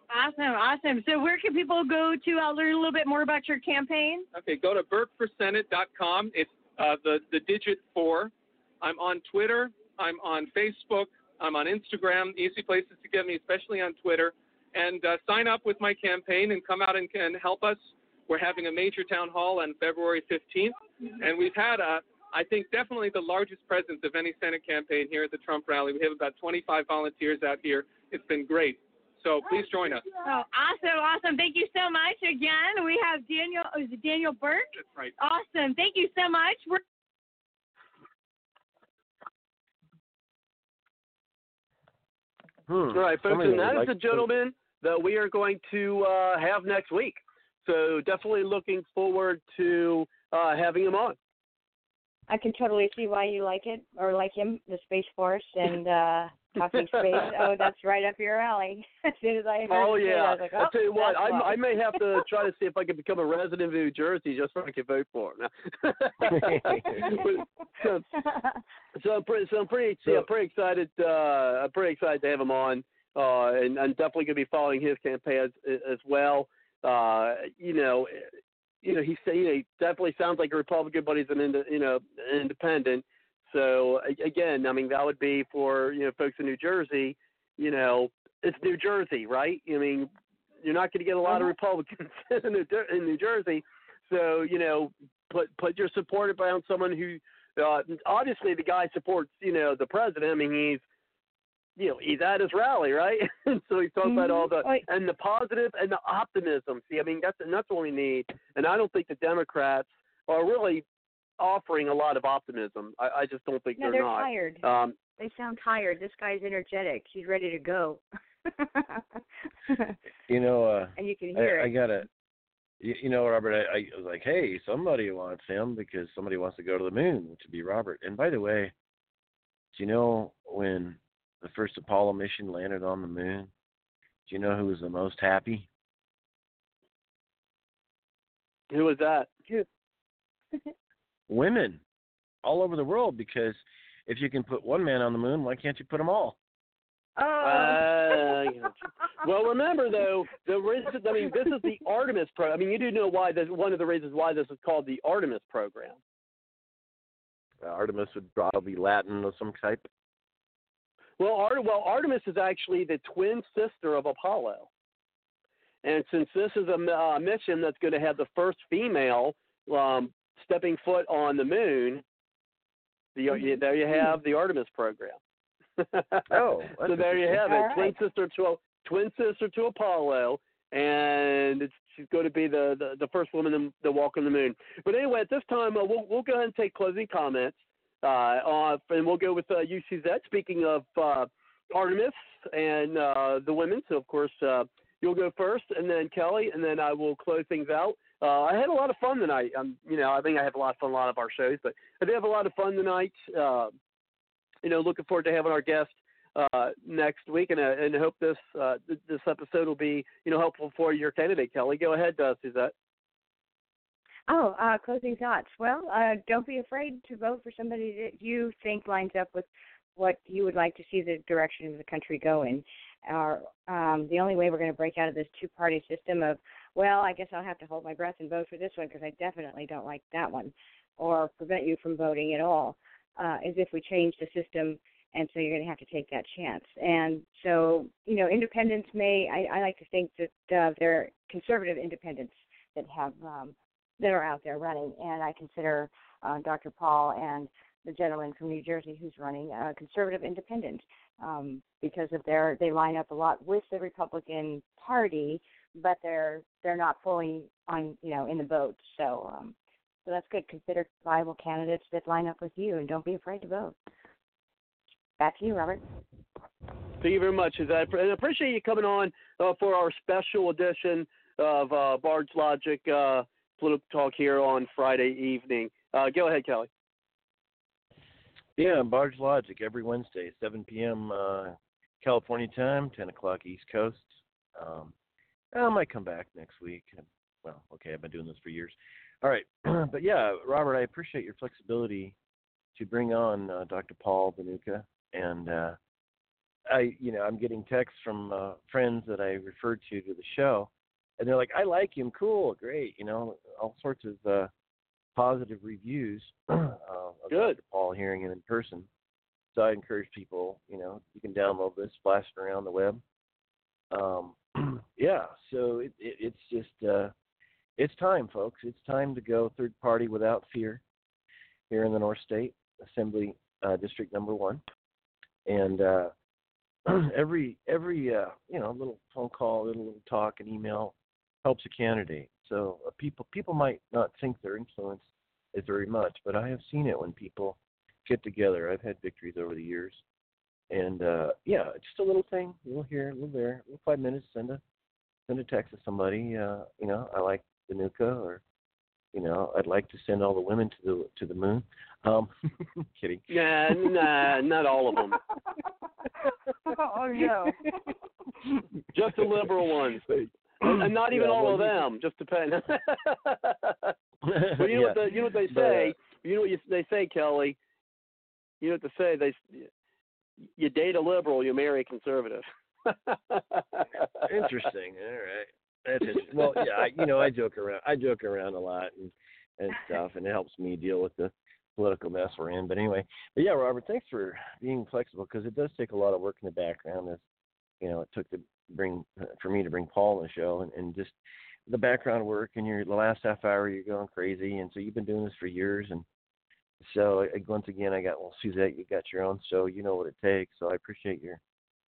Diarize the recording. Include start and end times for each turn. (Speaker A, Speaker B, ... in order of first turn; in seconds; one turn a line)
Speaker A: 0.1-4.3
Speaker B: 4.3-30.0
Speaker A: 30.2-36.8
Speaker B: 34.8-35.1
Speaker C: 42.7-44.3
Speaker D: 42.9-51.2
Speaker E: 52.3-62.3
Speaker D: 56.6-57.7
Speaker D: 59.7-68.1
Speaker C: 66.3-67.1
Speaker D: 69.0-78.3
Speaker D: 78.8-90.1
Speaker D: 90.6-100.8
Speaker E: 91.3-91.5
Speaker D: 101.8-110.8
Speaker E: 104.0-104.9
Speaker D: 111.4-115.0
Speaker E: 113.8-114.6
Speaker E: 115.2-119.0
Speaker E: 119.7-120.0
Speaker C: 120.3-122.1
Speaker E: 121.0-121.7
Speaker C: 122.8-128.7
Speaker C: 129.7-133.5
Speaker C: 134.3-135.7
Speaker D: 138.7-139.3
Speaker C: 141.3-141.8
Speaker C: 142.4-146.4
Speaker E: 147.2-148.3
Speaker D: 147.4-148.7
Speaker D: 149.2-156.0
Speaker C: 157.6-159.8
Speaker D: 161.2-164.7
Speaker D: 165.8-172.0
Speaker D: 173.2-175.2
Speaker E: 173.3-174.1
Speaker D: 175.8-176.3
Speaker C: 176.3-177.7
Speaker D: 176.8-203.7
Speaker E: 177.4-177.9
Speaker D: 204.6-212.7
Speaker E: 214.3-259.6
Speaker E: 260.1-263.8
Speaker E: 265.2-265.8
Speaker D: 267.0-276.7
Speaker C: 278.6-284.9
Speaker C: 285.5-292.2
Speaker C: 292.8-295.8
Speaker C: 296.7-304.5
Speaker C: 305.1-308.9
Speaker D: 307.3-307.6
Speaker C: 309.5-313.0
Speaker C: 313.9-317.1
Speaker C: 317.8-320.8
Speaker C: 321.7-324.6
Speaker C: 325.5-326.1
Speaker C: 326.9-340.0
Speaker C: 340.7-344.6
Speaker C: 345.3-348.4
Speaker C: 349.1-353.2
Speaker D: 353.3-355.2
Speaker E: 356.7-357.7
Speaker D: 358.9-360.1
Speaker C: 360.6-361.8
Speaker D: 360.6-363.9
Speaker C: 364.2-365.9
Speaker D: 364.6-367.6
Speaker D: 368.6-369.7
Speaker D: 370.6-374.1
Speaker C: 374.2-387.2
Speaker C: 387.8-391.2
Speaker C: 391.7-396.1
Speaker C: 396.8-401.4